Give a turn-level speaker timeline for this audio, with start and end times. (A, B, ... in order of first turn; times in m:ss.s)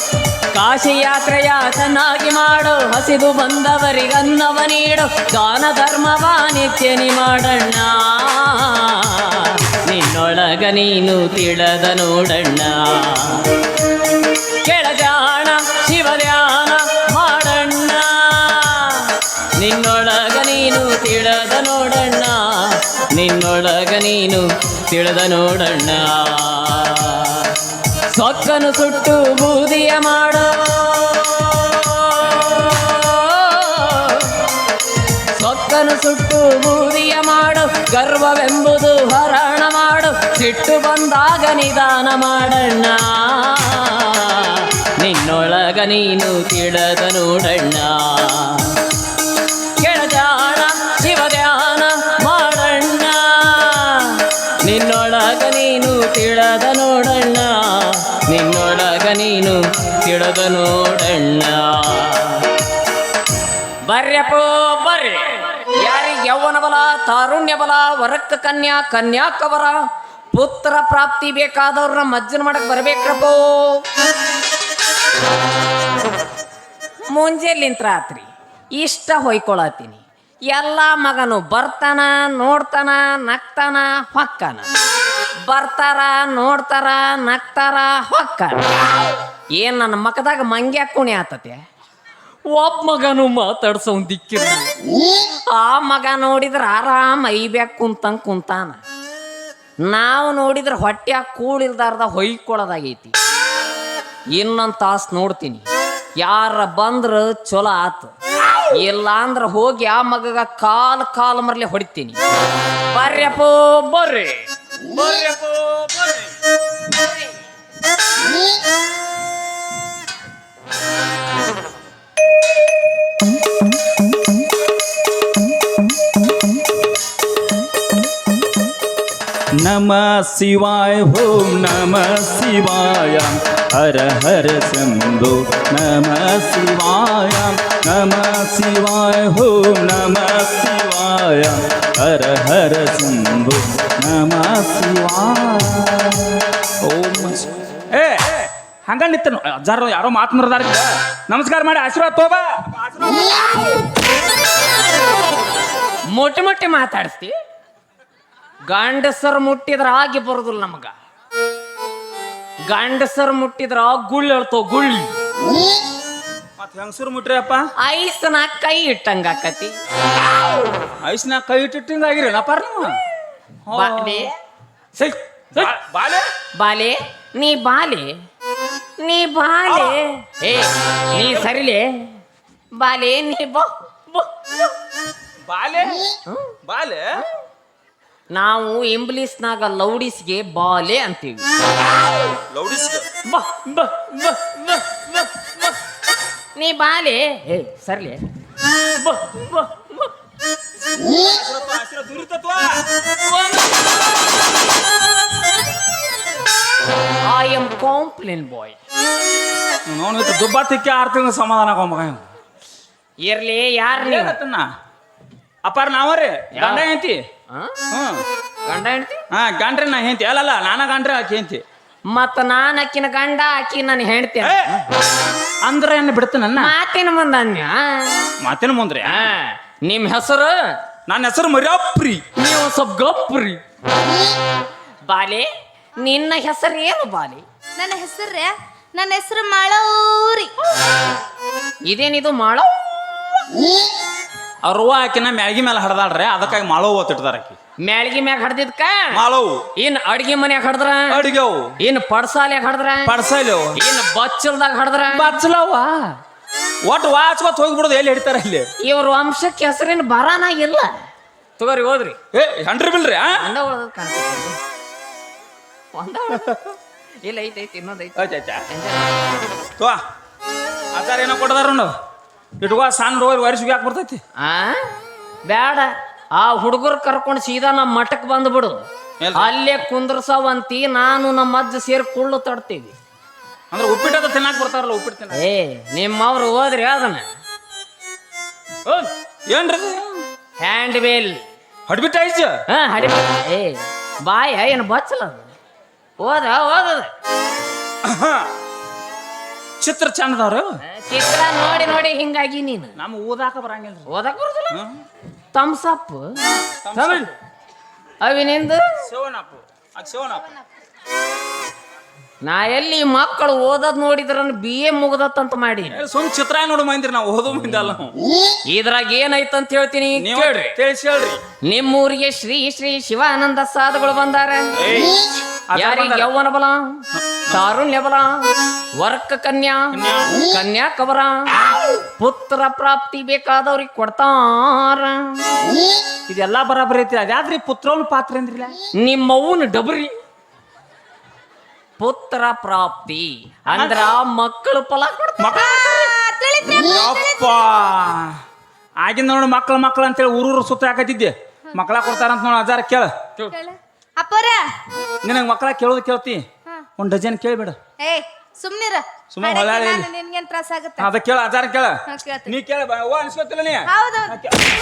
0:00.5-0:13.5 A
0:14.6-0:27.5 A
0:28.1-0:34.4 A
0:35.4-0:48.8 A
0:49.8-1:02.5 A
1:03.9-1:09.7 A
1:10.3-1:13.8 A
1:17.1-1:24.7 A
1:25.4-1:28.6 A
1:29.6-1:31.6 A
1:32.5-1:34.7 A
1:35.5-1:38.8 A
1:39.8-1:43.1 A
1:44.3-1:45.7 A
1:46.2-1:48.1 A
1:48.7-1:52.2 A
1:52.9-1:56.2 A
2:09.6-2:33.8 B
2:36.1-2:37.3 A
2:38.7-2:40.9 A
2:42.7-2:45.1 A
2:46.6-2:47.7 B
2:47.8-2:49.7 A
2:51.0-2:53.0 B
2:53.7-2:54.3 B
2:53.7-2:54.3 A
2:55.0-2:55.7 A
2:55.6-2:56.3 B
2:56.6-2:58.1 A
2:59.0-3:02.1 A
2:59.7-2:59.9 B
3:01.2-3:01.5 B
3:02.8-3:04.6 A
3:05.5-3:06.0 B
3:06.3-3:06.6 A
3:06.7-3:07.2 B
3:08.3-3:11.4 A
3:12.5-3:13.1 B
3:13.3-3:15.8 A
3:16.6-3:18.2 A
3:19.0-3:20.1 A
3:21.0-3:22.8 B
3:23.2-3:23.9 A
3:27.2-3:28.8 A
3:29.9-3:32.3 B
3:33.2-3:34.4 A
3:34.0-3:34.7 B
3:35.6-3:37.2 B
3:36.6-3:36.8 A
3:37.9-3:38.2 B
3:38.7-3:39.2 A
3:39.3-3:41.6 B
3:42.1-3:44.8 A
3:44.4-3:44.7 B
3:45.6-3:46.7 B
3:46.6-3:48.3 A
3:48.4-3:49.3 B
3:49.0-3:50.7 A
3:51.1-3:52.2 B
3:52.4-3:53.6 A
3:55.1-3:55.5 A
3:56.0-3:57.4 A
3:57.8-4:00.5 C
4:01.9-4:03.5 A
4:04.6-4:07.6 B
4:07.8-4:09.2 A
4:09.1-4:09.6 B
4:09.8-4:11.2 A
4:11.1-4:11.7 B
4:11.8-4:13.1 A
4:13.1-4:13.8 B
4:13.8-4:15.4 A
4:15.1-4:16.1 B
4:16.8-4:18.7 B
4:18.8-4:21.0 A
4:21.6-4:22.2 A
4:22.3-4:23.4 B
4:23.3-4:24.6 A
4:25.9-4:26.7 A
4:27.2-4:29.4 A
4:28.2-4:28.6 B
4:30.9-4:31.9 B
4:32.6-4:34.2 B
4:34.4-4:34.9 A
4:35.5-4:38.8 A
4:39.2-4:39.5 B
4:39.4-4:42.9 A
4:43.7-4:45.4 B
4:45.3-4:47.2 A
4:49.5-4:50.2 B
4:50.6-4:51.4 A
4:51.9-4:52.6 B
4:52.7-4:55.5 A
4:56.2-4:57.1 A
4:58.0-4:58.5 B
4:59.8-5:00.8 B
5:00.9-5:02.9 A
5:03.0-5:04.1 B
5:04.1-5:04.8 A
5:05.5-5:06.2 A
5:06.8-5:07.3 B
5:06.9-5:07.3 A
5:08.2-5:08.8 A
5:09.0-5:10.5 B
5:12.4-5:16.0 A
5:15.9-5:18.1 B
5:18.7-5:20.8 A
5:20.2-5:21.4 B
5:21.7-5:24.7 A
5:24.8-5:26.3 B
5:25.8-5:31.6 A
5:27.2-5:27.6 B
5:29.9-5:30.3 B
5:32.2-5:35.4 A
5:36.3-5:38.8 B
5:39.0-5:40.1 A
5:42.0-5:45.5 A
5:43.7-5:44.0 B
5:45.4-5:46.1 B
5:45.5-5:47.7 C
5:46.9-5:48.4 B
5:49.0-5:53.1 B
5:53.5-5:54.6 C
5:55.2-5:56.4 B
5:57.0-5:57.8 B
5:58.0-6:01.1 C
5:59.3-6:00.1 B
6:01.0-6:04.6 B
6:02.1-6:02.5 C
6:03.9-6:04.3 C